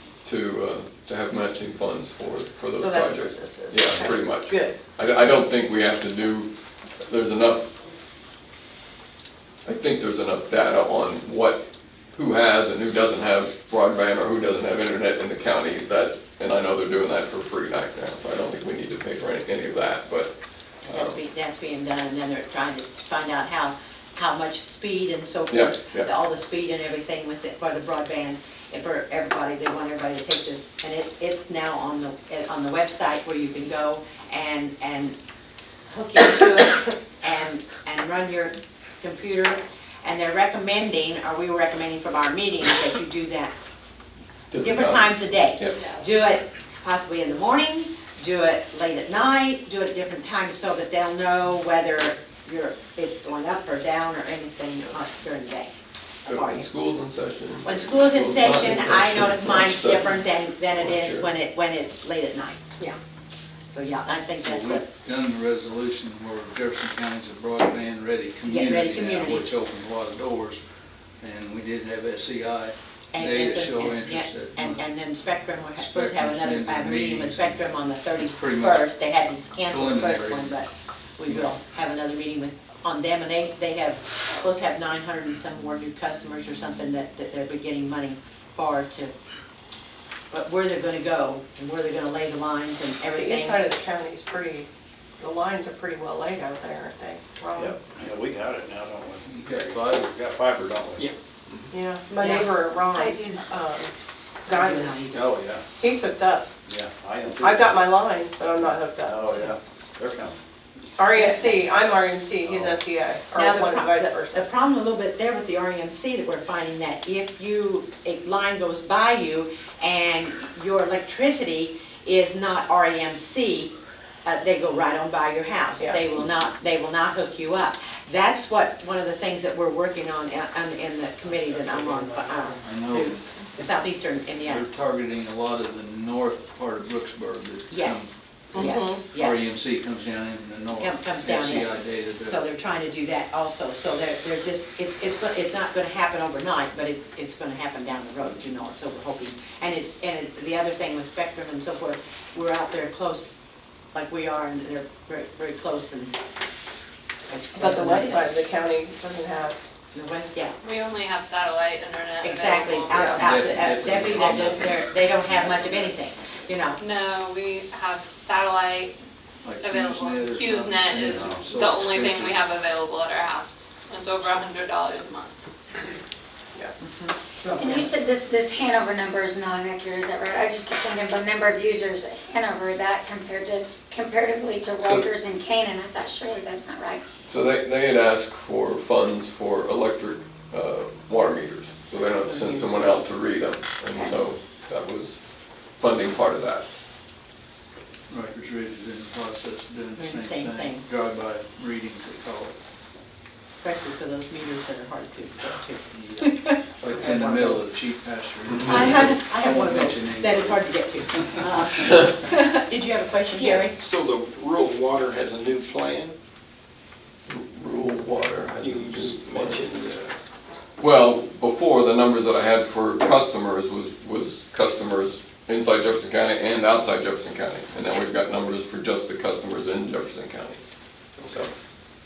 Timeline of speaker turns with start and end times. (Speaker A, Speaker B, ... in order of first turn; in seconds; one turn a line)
Speaker A: 0.2-6.5
Speaker B: 2.7-4.8
Speaker A: 7.1-7.7
Speaker A: 9.7-11.6
Speaker A: 12.2-20.3
Speaker A: 20.8-21.2
Speaker C: 20.9-35.2
Speaker A: 25.5-26.1
Speaker C: 35.9-43.5
Speaker A: 44.5-45.8
Speaker C: 44.6-55.7
Speaker C: 56.3-56.7
Speaker A: 56.3-61.3
Speaker C: 57.6-63.0
Speaker C: 63.7-64.9
Speaker D: 64.4-70.6
Speaker C: 68.5-69.5
Speaker D: 71.2-74.8
Speaker C: 73.1-89.1
Speaker D: 75.8-78.9
Speaker D: 79.7-80.5
Speaker D: 81.3-81.5
Speaker C: 90.3-93.6
Speaker B: 93.2-94.7
Speaker B: 95.2-97.9
Speaker E: 97.6-101.1
Speaker D: 99.3-100.1
Speaker B: 101.7-103.9
Speaker F: 102.2-103.7
Speaker B: 104.5-105.0
Speaker C: 104.5-105.3
Speaker E: 105.1-105.7
Speaker B: 105.8-106.5
Speaker E: 106.7-107.8
Speaker B: 107.2-109.5
Speaker E: 108.5-110.4
Speaker B: 111.0-114.5
Speaker C: 111.1-111.5
Speaker E: 112.4-112.8
Speaker C: 113.3-123.7
Speaker C: 124.2-134.7
Speaker D: 132.6-133.2
Speaker D: 134.5-142.4
Speaker C: 137.7-139.5
Speaker B: 138.5-139.0
Speaker C: 140.7-153.4
Speaker C: 153.9-156.2
Speaker C: 157.3-158.3
Speaker B: 157.5-159.6
Speaker C: 159.9-160.6
Speaker G: 160.6-163.4
Speaker C: 162.2-166.8
Speaker D: 163.2-164.8
Speaker G: 166.8-168.9
Speaker D: 169.4-172.4
Speaker G: 169.6-175.4
Speaker E: 171.1-171.4
Speaker C: 176.8-177.9
Speaker F: 177.6-187.0
Speaker A: 184.8-185.1
Speaker A: 187.3-195.2
Speaker C: 192.2-193.0
Speaker F: 193.9-194.2
Speaker A: 195.8-196.7
Speaker D: 198.1-202.6
Speaker C: 200.0-200.8
Speaker C: 203.6-207.7
Speaker D: 206.0-206.3
Speaker D: 206.8-212.0
Speaker C: 208.6-213.8
Speaker H: 213.3-216.2
Speaker A: 217.3-219.6
Speaker H: 218.6-220.2
Speaker A: 220.8-230.6
Speaker A: 231.2-231.5